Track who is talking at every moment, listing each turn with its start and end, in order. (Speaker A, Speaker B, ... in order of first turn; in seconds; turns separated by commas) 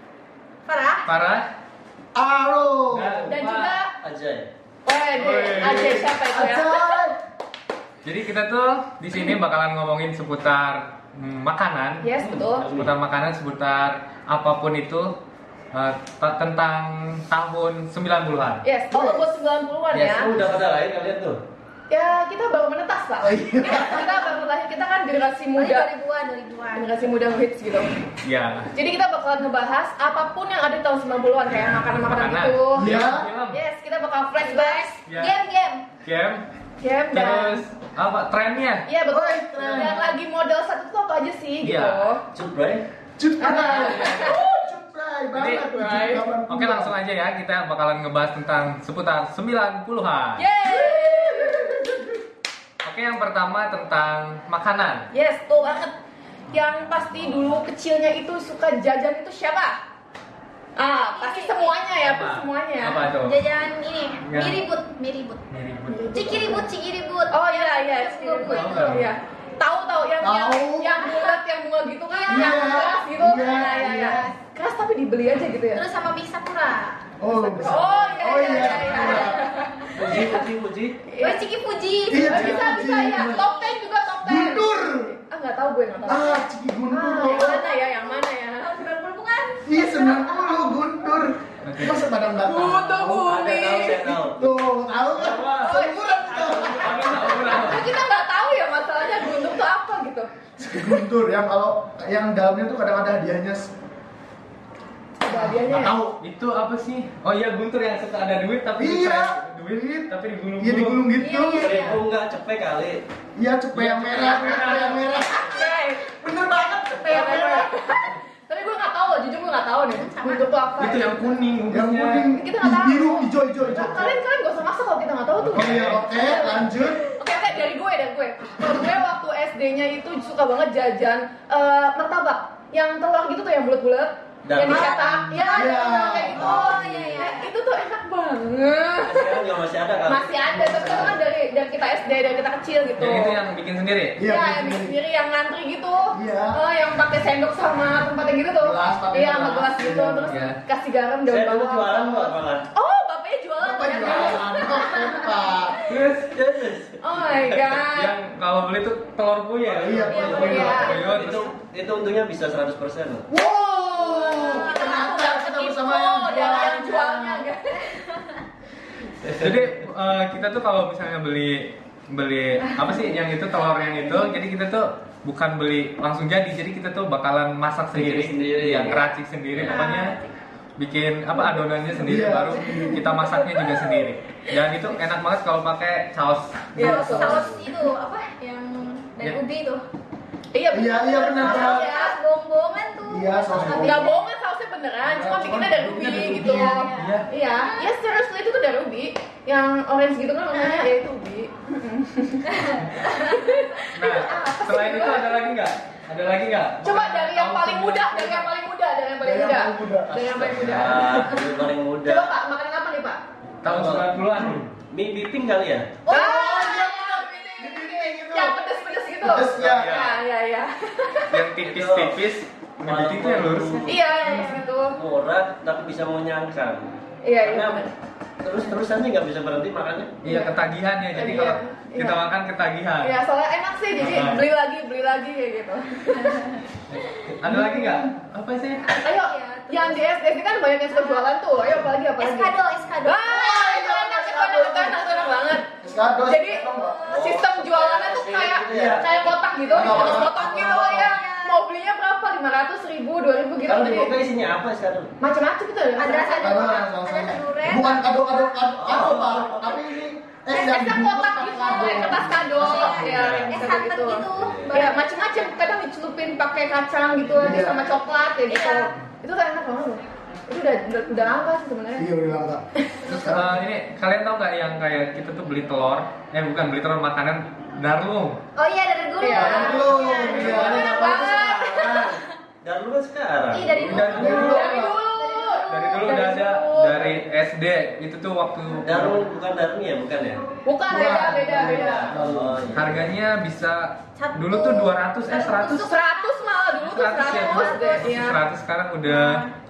Speaker A: 0.7-1.1, Speaker B: 1.1-1.5, Speaker C: 2.1-3.3, Speaker B: 2.9-3.8, Speaker D: 3.3-3.9, Speaker E: 4.0-4.5, Speaker D: 4.8-7.0, Speaker B: 5.2-6.0, Speaker C: 5.2-7.2, Speaker B: 8.0-12.1, Speaker D: 12.0-12.6, Speaker E: 12.2-12.9, Speaker B: 12.6-15.1, Speaker B: 15.7-18.6, Speaker D: 18.6-20.3, Speaker C: 18.9-19.3, Speaker E: 19.9-21.4, Speaker D: 21.9-25.9, Speaker C: 23.2-24.2, Speaker A: 25.6-27.1, Speaker D: 26.8-27.9, Speaker B: 28.2-28.7, Speaker D: 28.7-34.9, Speaker B: 32.0-33.6, Speaker C: 32.8-33.3, Speaker A: 34.4-35.9, Speaker B: 35.1-35.4, Speaker B: 36.0-36.4, Speaker D: 36.8-37.6, Speaker B: 37.1-38.9, Speaker D: 38.9-42.2, Speaker C: 39.1-40.1, Speaker B: 41.6-42.1, Speaker E: 42.3-42.9, Speaker C: 43.2-46.9, Speaker D: 43.4-44.4, Speaker B: 45.3-45.7, Speaker D: 45.6-46.3, Speaker B: 46.5-50.5, Speaker D: 50.4-52.2, Speaker A: 50.6-51.8, Speaker B: 52.8-55.1, Speaker D: 55.1-56.0, Speaker D: 56.5-59.8, Speaker D: 60.8-63.1, Speaker A: 61.1-61.8, Speaker B: 62.0-63.4, Speaker A: 63.2-65.4, Speaker B: 64.2-64.6, Speaker B: 65.5-66.2, Speaker D: 65.9-66.7, Speaker A: 66.1-69.0, Speaker D: 67.3-75.9, Speaker B: 68.5-69.1, Speaker C: 70.2-71.0, Speaker A: 71.0-71.4, Speaker A: 72.2-72.9, Speaker C: 72.3-74.3, Speaker A: 73.5-74.3, Speaker A: 75.7-77.0, Speaker C: 77.2-79.5, Speaker D: 77.4-80.5, Speaker A: 77.6-79.8, Speaker E: 79.9-81.0, Speaker D: 81.1-81.4, Speaker A: 81.2-83.8, Speaker C: 82.1-83.5, Speaker D: 82.2-88.7, Speaker C: 84.2-85.1, Speaker C: 86.1-87.7, Speaker A: 87.2-90.7, Speaker C: 89.7-93.3, Speaker B: 91.6-92.1, Speaker D: 92.4-94.2, Speaker E: 93.2-94.5, Speaker C: 94.3-97.0, Speaker E: 95.1-95.7, Speaker D: 95.7-100.3, Speaker E: 96.3-97.6, Speaker B: 96.8-97.9, Speaker C: 100.6-103.7, Speaker D: 105.2-106.0, Speaker C: 105.3-106.2, Speaker B: 105.7-111.1, Speaker C: 108.8-111.8, Speaker A: 111.2-112.0, Speaker E: 111.6-113.0, Speaker C: 113.4-115.5, Speaker B: 113.8-115.1, Speaker A: 114.5-114.8, Speaker D: 114.6-116.1, Speaker C: 116.2-117.7, Speaker D: 117.0-121.3, Speaker A: 119.9-120.4, Speaker B: 120.8-122.3, Speaker C: 121.7-124.2, Speaker D: 122.3-139.4, Speaker B: 123.7-124.0, Speaker B: 125.4-126.1, Speaker C: 125.5-127.0, Speaker E: 134.4-135.0, Speaker A: 134.6-137.5, Speaker C: 135.3-137.2, Speaker E: 139.0-140.4, Speaker D: 140.1-143.4, Speaker C: 140.5-141.2, Speaker B: 143.0-144.2, Speaker C: 144.2-144.9, Speaker D: 144.2-155.5, Speaker C: 146.1-146.6, Speaker C: 148.6-150.3, Speaker B: 150.3-150.6, Speaker E: 151.3-152.6, Speaker C: 153.6-155.8, Speaker B: 155.9-156.3, Speaker E: 156.3-157.2, Speaker D: 157.0-158.1, Speaker B: 157.7-161.5, Speaker C: 159.8-160.8, Speaker E: 159.8-163.2, Speaker A: 160.1-161.1, Speaker D: 160.4-161.0, Speaker C: 163.3-167.5, Speaker A: 164.1-165.0, Speaker D: 164.4-168.1, Speaker E: 169.2-169.5, Speaker B: 169.4-180.2, Speaker E: 177.9-179.0, Speaker E: 179.5-179.9, Speaker A: 179.7-180.3, Speaker B: 180.8-187.5, Speaker C: 182.1-183.0, Speaker A: 182.7-183.9, Speaker D: 186.8-187.5, Speaker A: 186.8-189.8, Speaker D: 190.5-192.2, Speaker C: 190.7-191.9, Speaker A: 191.4-194.2, Speaker C: 193.1-194.1, Speaker D: 193.8-205.6, Speaker C: 195.0-196.9, Speaker A: 196.4-197.9, Speaker B: 197.0-197.3, Speaker A: 200.5-200.9, Speaker A: 202.5-203.4, Speaker B: 203.9-208.5, Speaker D: 206.8-211.4, Speaker C: 209.2-210.7, Speaker B: 210.5-211.2, Speaker E: 210.5-212.3, Speaker D: 212.0-213.2, Speaker B: 213.6-214.6, Speaker E: 213.6-216.0, Speaker D: 216.1-221.4, Speaker C: 216.1-218.6, Speaker C: 219.2-220.0, Speaker B: 219.6-220.2, Speaker B: 221.3-223.8, Speaker E: 221.6-222.2, Speaker E: 222.8-224.0, Speaker D: 223.8-225.0, Speaker A: 224.1-224.7, Speaker E: 224.9-227.9, Speaker D: 227.2-227.9, Speaker E: 228.4-230.2, Speaker B: 230.2-233.2, Speaker D: 230.2-230.6, Speaker D: 231.1-232.2, Speaker D: 233.0-236.5, Speaker B: 234.0-234.4, Speaker A: 236.2-236.6, Speaker B: 236.9-238.8, Speaker A: 238.8-240.2, Speaker D: 239.0-245.7, Speaker A: 240.9-241.3, Speaker A: 242.2-243.6, Speaker C: 243.2-245.1, Speaker C: 245.7-247.0, Speaker D: 246.2-254.2, Speaker A: 246.8-247.1, Speaker E: 247.1-250.3, Speaker C: 248.7-249.1, Speaker C: 249.7-251.2, Speaker A: 249.8-251.6, Speaker E: 253.7-255.1, Speaker D: 255.2-256.9, Speaker A: 256.0-258.1, Speaker C: 256.4-263.0, Speaker E: 258.8-259.8, Speaker D: 260.5-272.1, Speaker A: 261.5-265.5, Speaker E: 262.8-263.6, Speaker E: 264.4-264.8, Speaker C: 267.4-267.9, Speaker A: 268.5-268.9, Speaker C: 272.0-273.6, Speaker B: 273.1-278.4, Speaker A: 278.6-282.2, Speaker D: 279.2-282.0, Speaker C: 279.3-280.9, Speaker E: 279.6-284.4, Speaker A: 283.5-287.1, Speaker B: 283.9-284.7, Speaker C: 284.1-284.9, Speaker D: 284.3-285.6, Speaker B: 285.7-289.2, Speaker E: 288.8-290.4, Speaker D: 290.6-292.1, Speaker C: 290.9-292.7, Speaker E: 291.5-293.1, Speaker B: 292.7-295.9, Speaker A: 294.2-296.5, Speaker D: 295.8-298.4, Speaker B: 296.8-299.5, Speaker A: 297.1-298.3, Speaker A: 299.1-299.5